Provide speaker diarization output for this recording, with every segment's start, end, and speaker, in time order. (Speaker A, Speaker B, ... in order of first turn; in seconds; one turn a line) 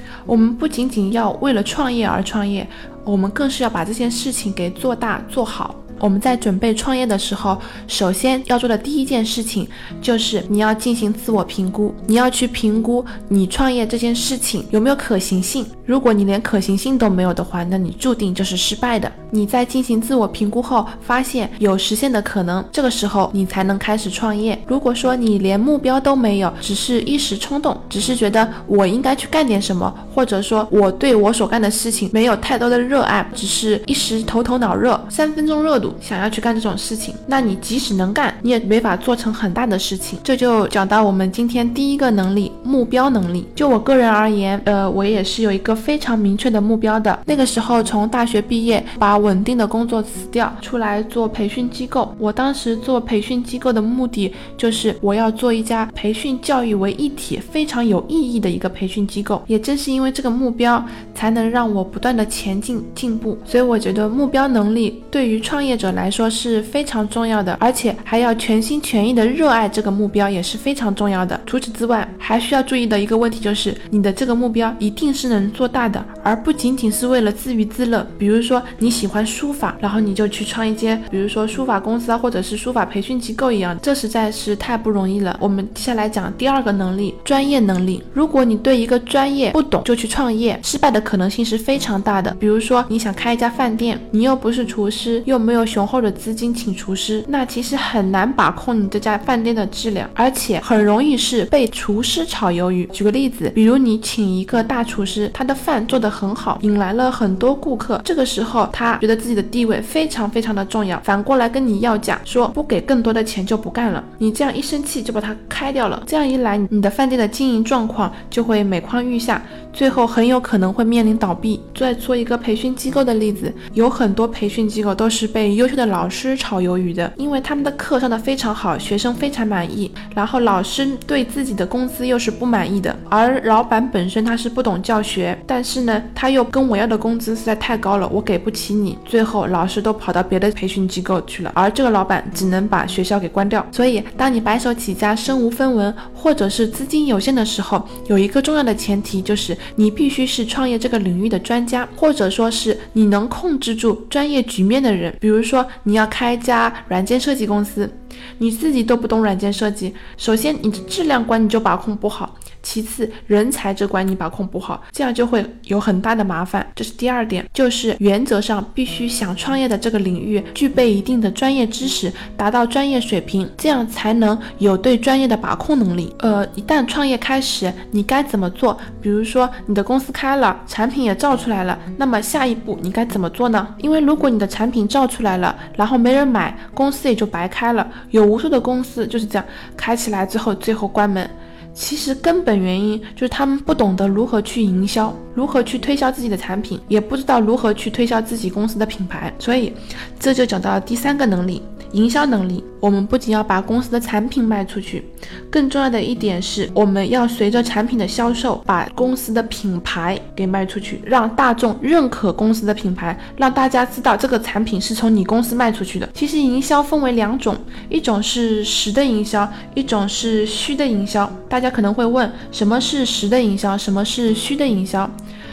Speaker A: 0.3-225.1